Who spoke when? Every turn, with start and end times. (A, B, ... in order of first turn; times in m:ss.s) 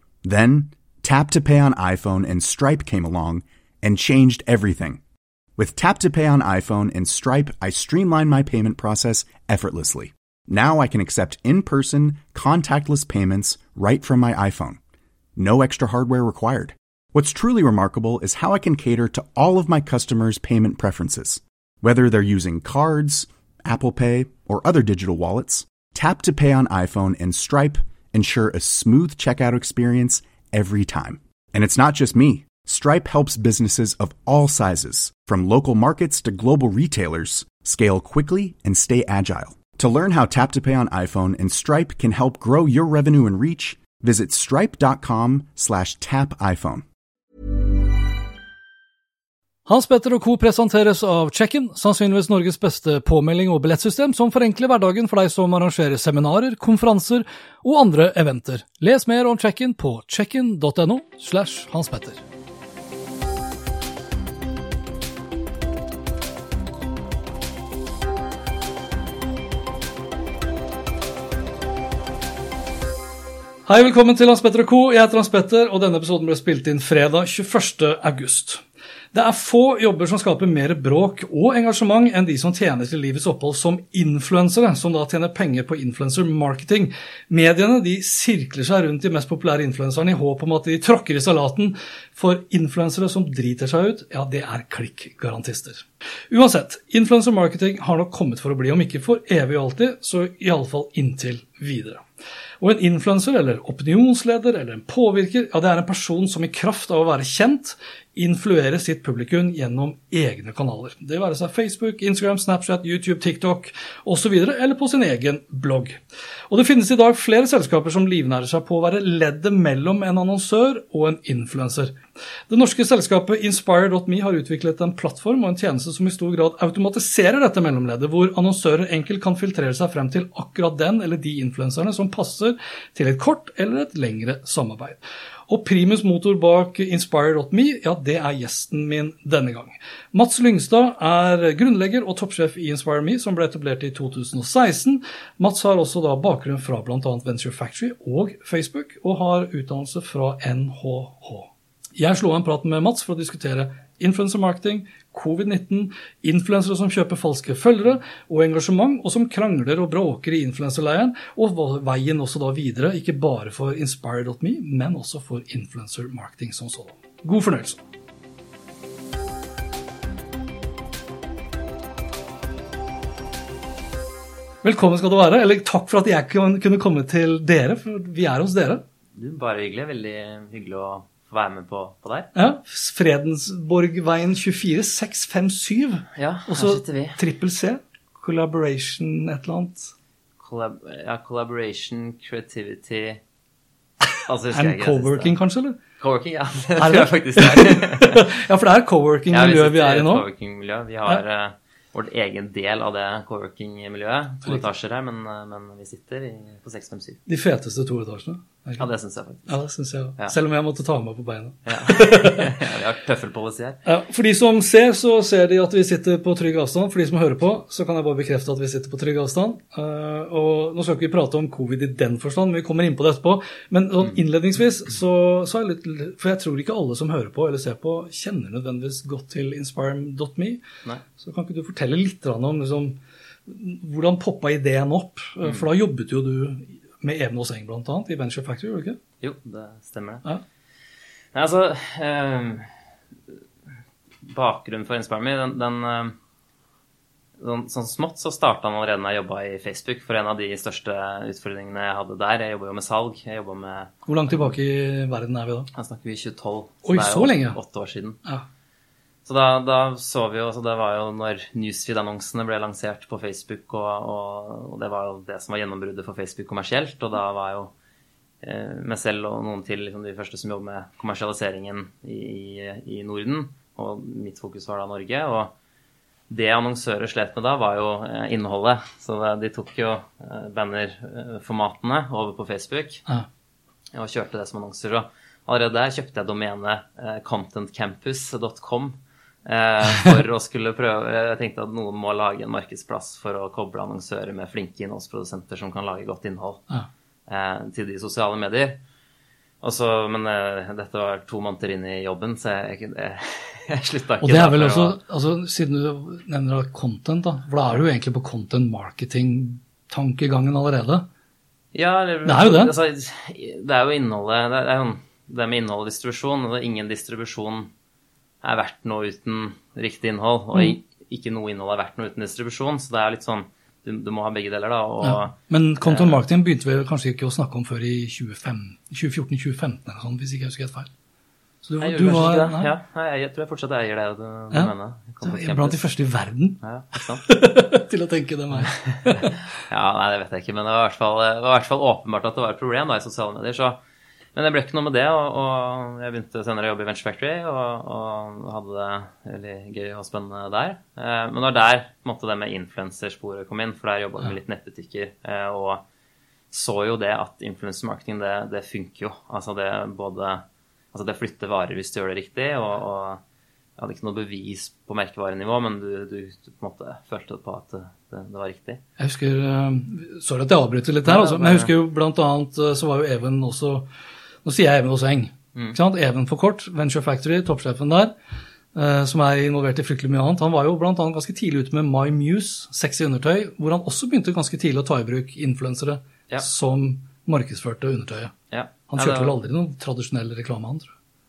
0:00.2-0:05.0 A
0:05.6-0:14.8 A
0:15.4-0:46.8 A
0:49.7-1:02.2 B
1:13.7-1:42.0 B
1:42.6-2:02.0 B
2:02.5-2:47.8 B
2:54.6-2:58.8 B
2:59.2-3:02.3 C
3:02.3-3:09.9 B
3:06.2-3:07.2 C
3:10.4-3:13.2 C
3:14.2-3:15.3 C
3:14.5-3:15.8 B
3:16.0-3:18.3 C
3:16.8-3:20.2 B
3:19.3-3:27.2 C
3:27.3-3:28.8 B
3:28.8-3:29.5 C
3:29.5-3:32.5 B
3:31.6-3:33.8 C
3:33.8-3:50.6 B
3:51.2-3:59.0 B
3:59.2-4:00.2 C
4:01.3-4:02.7 C
4:04.2-4:06.2 C
4:07.4-4:14.5 C
4:14.0-4:15.7 B
4:15.7-4:18.2 C
4:16.8-4:17.6 B
4:19.2-4:27.7 C
4:28.4-4:35.5 C
4:36.3-4:43.0 C
4:43.9-4:56.6 C
4:57.3-4:58.8 C
4:59.6-5:05.0 C
5:04.2-5:11.1 B
5:11.7-5:17.7 C
5:12.2-5:12.7 B
5:18.4-5:26.2 C
5:25.0-5:30.9 B
5:31.6-5:32.7 B
5:31.8-5:35.8 C
5:35.2-5:39.3 B
5:36.6-5:37.2 C
5:38.6-5:43.8 C
5:44.3-5:55.8 C
5:56.5-6:03.2 C
6:03.8-6:08.8 C
6:09.0-6:13.9 B
6:11.0-6:11.7 C
6:14.4-6:18.1 B
6:18.7-6:28.3 B
6:28.5-6:29.3 C
6:28.9-6:30.9 B